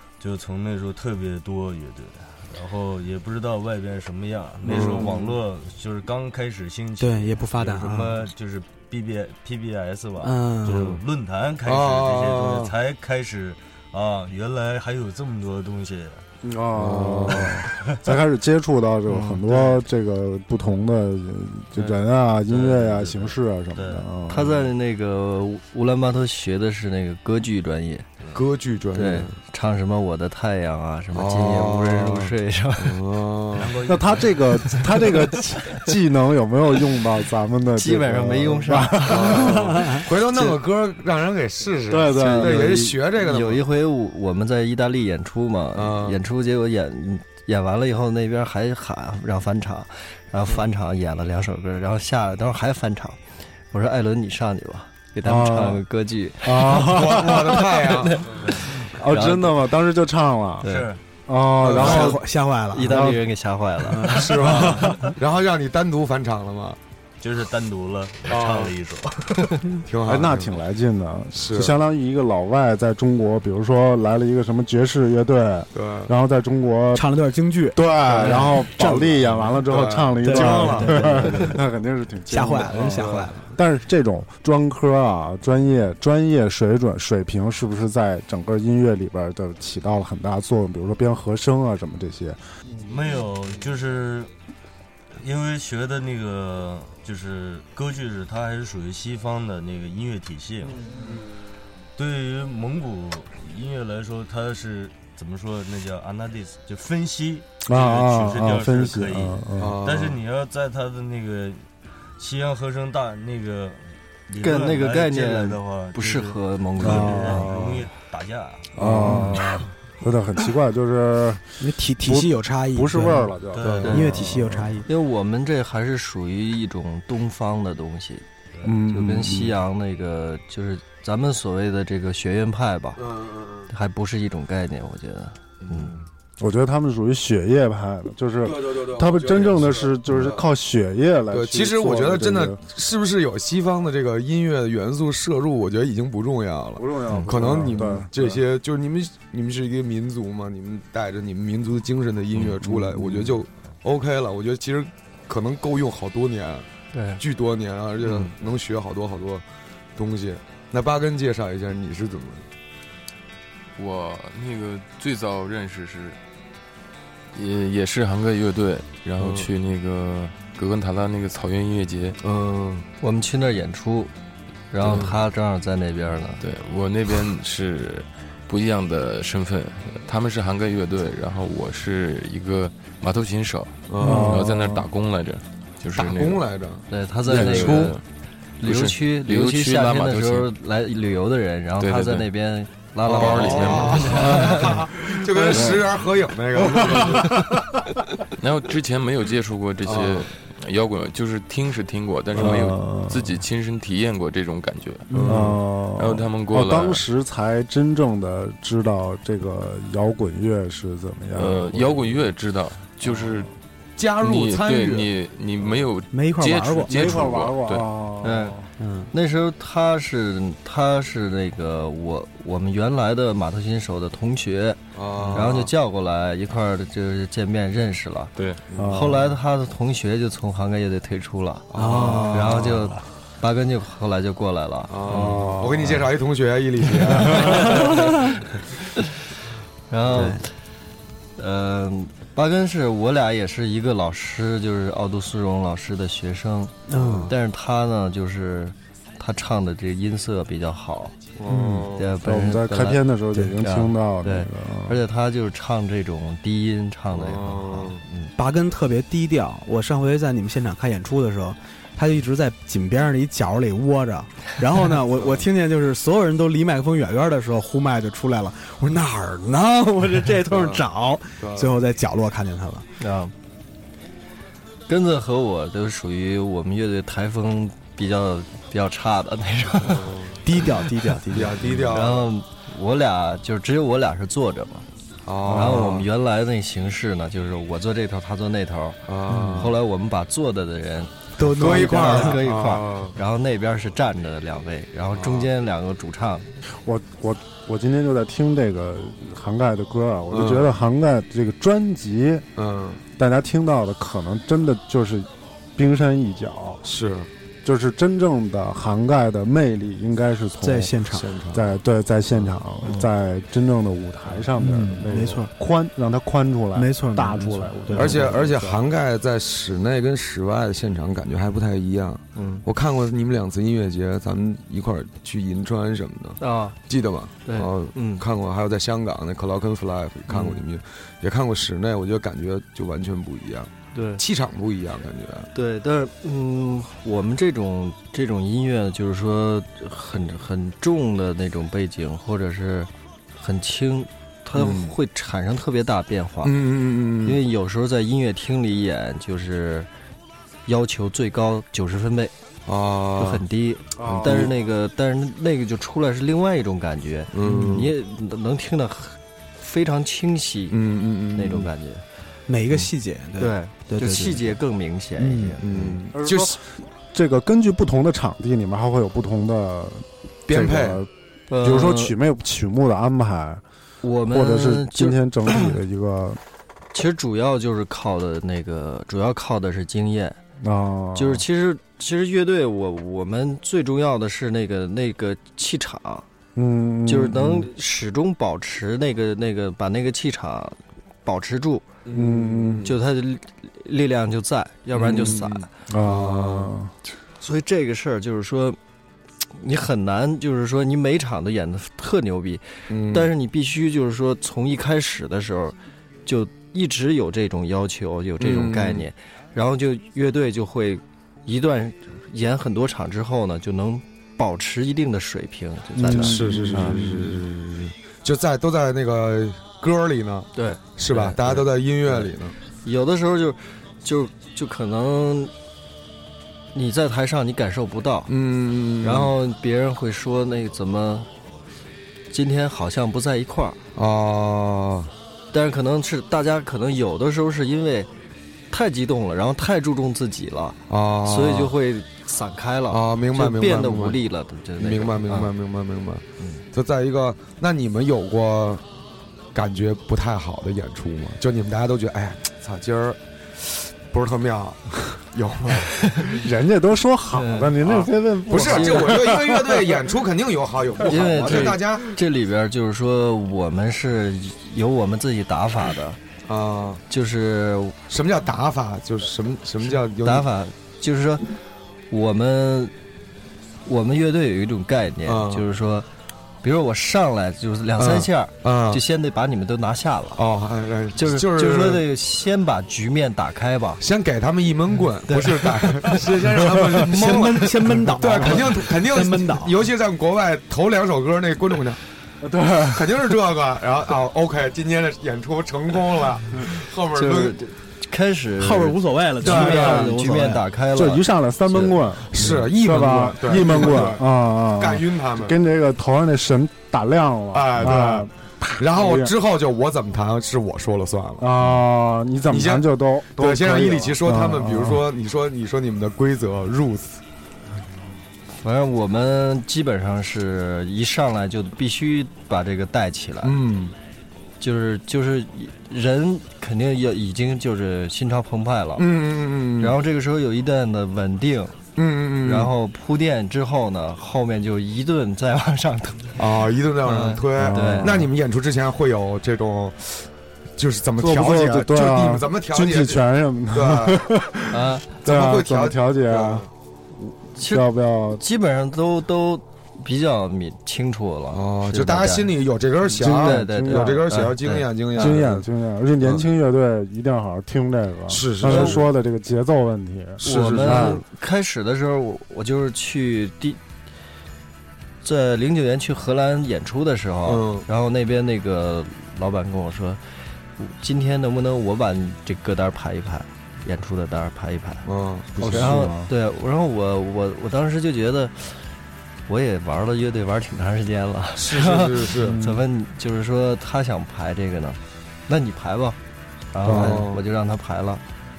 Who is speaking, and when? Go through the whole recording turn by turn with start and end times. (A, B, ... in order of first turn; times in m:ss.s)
0:00.2-0:16.2 A
0:04.6-0:05.4 B
0:07.0-0:08.3 C
0:10.2-0:11.0 C
0:11.6-0:12.7 B
0:16.4-0:24.5 D
0:16.7-0:17.6 B
0:19.1-0:19.4 E
0:19.5-0:19.8 A
0:21.8-0:24.6 A
0:24.3-0:28.1 E
0:28.3-0:29.4 B
0:29.0-0:33.0 E
0:31.1-0:33.7 B
0:33.5-0:35.1 A
0:33.8-0:40.6 D
0:37.8-0:39.6 E
0:39.0-0:43.6 B
0:41.9-0:42.9 D
0:42.1-0:53.2 E
0:45.8-0:46.2 B
0:53.7-0:59.6 E
0:55.2-0:55.8 D
0:56.4-0:57.7 D
0:56.7-0:58.4 B
0:58.5-1:00.7 D
1:00.6-1:00.9 E
1:00.6-1:01.0 A
1:01.3-1:02.2 D
1:01.6-1:02.2 B
1:01.8-1:03.0 C
1:02.7-1:05.1 E
1:02.8-1:03.2 D
1:03.9-1:04.8 C
1:04.1-1:06.8 B
1:07.2-1:09.6 A
1:08.3-1:08.7 B
1:09.8-1:10.5 B
1:10.0-1:17.1 D
1:11.3-1:11.7 B
1:15.7-1:16.1 B
1:16.9-1:19.2 C
1:17.7-1:32.4 D
1:19.2-1:21.6 B
1:20.2-1:21.6 C
1:22.3-1:23.5 C
1:22.7-1:23.3 B
1:32.8-1:34.3 A
1:35.2-1:40.8 A
1:42.0-1:51.7 A
1:47.7-1:49.8 D
1:49.6-1:50.2 B
1:52.2-1:59.4 A
1:54.4-1:57.4 E
1:56.8-1:57.8 D
1:57.4-1:57.7 B
1:58.8-2:04.8 D
1:58.8-1:59.5 B
2:01.6-2:03.3 C
2:03.5-2:04.1 A
2:03.6-2:04.0 B
2:03.8-2:04.9 C
2:04.9-2:08.2 E
2:08.6-2:09.5 D
2:08.8-2:13.0 E
2:13.0-2:13.7 B
2:13.7-2:16.0 E
2:15.6-2:16.1 B
2:16.4-2:22.6 D
2:18.4-2:20.5 B
2:21.3-2:36.7 B
2:26.8-2:28.4 D
2:32.6-2:33.4 D
2:36.9-2:37.2 E
2:37.2-2:39.4 B
2:40.0-2:42.5 B
2:43.8-2:46.2 F
2:47.3-2:52.2 F
2:49.2-2:49.5 B
2:52.2-2:52.9 B
2:53.0-2:54.1 E
2:54.7-2:56.4 E
2:54.8-2:55.1 B
2:54.8-2:55.1 F
2:56.4-3:06.4 F
3:03.9-3:04.4 B
3:04.0-3:04.9 D
3:06.0-3:06.9 B
3:06.9-3:08.0 E
3:07.3-3:08.0 D
3:07.3-3:08.0 F
3:08.6-3:14.8 E
3:08.6-3:10.5 F
3:11.8-3:12.3 F
3:13.1-3:17.5 B
3:13.1-3:14.5 F
3:15.4-3:15.9 D
3:16.7-3:17.3 D
3:18.4-3:27.0 F
3:19.8-3:20.3 B
3:22.3-3:23.4 D
3:22.4-3:22.7 B
3:25.1-3:25.6 B
3:25.3-3:32.2 D
3:31.4-3:33.5 F
3:34.0-3:35.8 B
3:34.2-3:37.9 F
3:36.1-3:37.1 C
3:36.9-3:38.7 D
3:38.2-3:38.6 E
3:38.8-3:39.1 C
3:39.1-3:44.8 E
3:44.9-3:45.7 B
3:45.3-3:48.3 E
3:48.4-3:48.6 F
3:48.7-3:49.2 B
3:48.8-3:49.3 D
3:48.9-3:51.7 E
3:51.7-3:52.9 B
3:51.7-3:52.6 C
3:52.3-3:55.5 E
3:54.9-3:58.1 B
3:55.1-3:56.0 D
3:57.1-3:57.5 D
3:57.1-3:58.2 E
3:59.9-4:00.5 E
4:00.1-4:00.4 B
4:00.1-4:00.4 C
4:01.4-4:11.2 E
4:06.9-4:07.3 C
4:07.0-4:07.3 B
4:11.4-4:12.0 B
4:11.5-4:15.0 D
4:11.5-4:11.8 C
4:12.0-4:13.0 E
4:13.6-4:18.3 E
4:17.1-4:18.0 B
4:18.4-4:32.9 C
4:25.1-4:25.5 B
4:30.5-4:30.8 B
4:31.4-4:31.8 B
4:33.0-4:33.3 E
4:34.9-4:40.1 E
4:39.8-4:40.4 B
4:40.4-4:41.9 C
4:41.3-4:42.3 B
4:41.9-4:44.9 E
4:45.2-4:46.1 B
4:45.4-4:56.5 E
4:49.1-4:49.7 B
4:51.4-4:52.4 C
4:51.5-4:53.2 B
4:55.2-4:55.5 B
4:56.8-5:02.5 D
5:00.3-5:00.7 B
5:02.6-5:03.0 B
5:03.2-5:06.8 D
5:06.8-5:07.3 B
5:07.6-5:11.0 D
5:10.6-5:11.3 C
5:11.1-5:11.7 B
5:11.5-5:18.8 D
5:12.3-5:12.6 B
5:14.6-5:15.5 C
5:16.8-5:18.2 C
5:18.0-5:35.5 B
5:22.4-5:22.6 E
5:26.4-5:26.8 E
5:27.4-5:28.2 E
5:30.3-5:30.6 E
5:33.9-5:34.2 E
5:35.5-5:46.6 E
5:44.6-5:44.9 B
5:46.4-5:47.4 B
5:47.2-5:49.9 E
5:50.7-5:52.3 E
5:52.7-5:53.4 B
5:53.2-6:00.8 E
5:54.0-5:54.5 D
5:54.0-5:54.5 B
5:57.3-5:57.9 B
5:57.4-5:57.8 C
6:00.7-6:01.7 B
6:01.3-6:02.0 E
6:02.5-6:04.6 C
6:02.7-6:06.0 E
6:05.2-6:05.6 C
6:05.6-6:06.6 B
6:06.1-6:13.6 D
6:10.5-6:11.0 B
6:11.5-6:12.2 E
6:14.0-6:15.7 E
6:14.2-6:16.4 D
6:16.9-6:20.4 E
6:20.6-6:21.4 D
6:21.2-6:26.3 E
6:26.6-6:27.7 D
6:27.1-6:31.9 E
6:32.0-6:33.0 B
6:32.1-6:32.9 D
6:32.8-6:35.7 E
6:34.9-6:36.7 B
6:35.9-6:36.9 D
6:37.4-6:38.8 E
6:39.6-6:57.1 E
6:42.9-6:43.3 B
6:48.4-6:49.1 B
6:56.0-6:57.4 D
6:56.1-7:02.6 B
7:00.6-7:02.3 E
7:02.8-7:05.5 E
7:06.7-7:08.3 E
7:08.3-7:09.3 B
7:09.0-7:11.3 E
7:12.3-7:13.8 E
7:14.0-7:15.1 B
7:15.5-7:18.1 E
7:18.7-7:25.5 E
7:20.9-7:21.7 B
7:22.9-7:24.2 B
7:24.8-7:28.8 B
7:29.5-7:36.2 B
7:36.2-7:40.0 D
7:37.3-7:37.9 E
7:37.8-7:42.1 B
7:38.5-7:39.2 E
7:41.0-7:46.2 E
7:46.5-7:47.0 B
7:47.1-7:48.0 E
7:48.1-7:50.5 B
7:50.2-7:51.6 E
7:52.1-7:52.9 E
7:53.8-7:56.1 E
7:55.2-7:55.7 B
7:56.6-8:00.4 E
7:58.0-7:59.0 B
8:00.4-8:02.0 B
8:01.2-8:04.0 E
8:04.0-8:12.0 B
8:05.3-8:06.2 E
8:07.1-8:09.7 C
8:12.4-8:13.4 D
8:12.9-8:17.6 B
8:17.1-8:22.0 E
8:18.6-8:20.7 C
8:19.4-8:20.1 D
8:19.4-8:20.1 B
8:20.9-8:29.3 D
8:22.3-8:25.6 B
8:27.5-8:31.8 B
8:31.4-8:35.0 D
8:32.5-8:37.2 B
8:38.6-8:43.6 E
8:43.4-8:44.0 B
8:44.6-8:49.1 E
8:49.0-8:50.0 B
8:49.8-8:51.8 E
8:52.0-8:52.7 B
8:52.4-8:56.4 E
8:56.4-9:04.3 B
8:57.0-8:58.1 E
8:57.6-8:58.3 D
9:01.2-9:06.7 D
9:04.7-9:05.1 E
9:05.2-9:06.7 B
9:07.5-9:08.4 D
9:07.6-9:12.5 E
9:11.5-9:15.7 B
9:13.1-9:15.4 E
9:13.1-9:14.3 D
9:15.2-9:21.2 D
9:16.2-9:16.5 B
9:18.3-9:19.1 B
9:18.6-9:19.0 E
9:20.4-9:21.2 B
9:20.4-9:23.8 E
9:25.2-9:30.2 E
9:27.4-9:27.9 B
9:30.8-9:35.1 E
9:35.0-9:36.1 B
9:35.6-9:36.3 D
9:35.7-9:38.8 E
9:39.5-9:46.2 E
9:41.6-9:42.6 B
9:42.4-9:42.8 D
9:46.7-9:48.2 E
9:46.8-9:47.2 D
9:46.8-9:47.4 B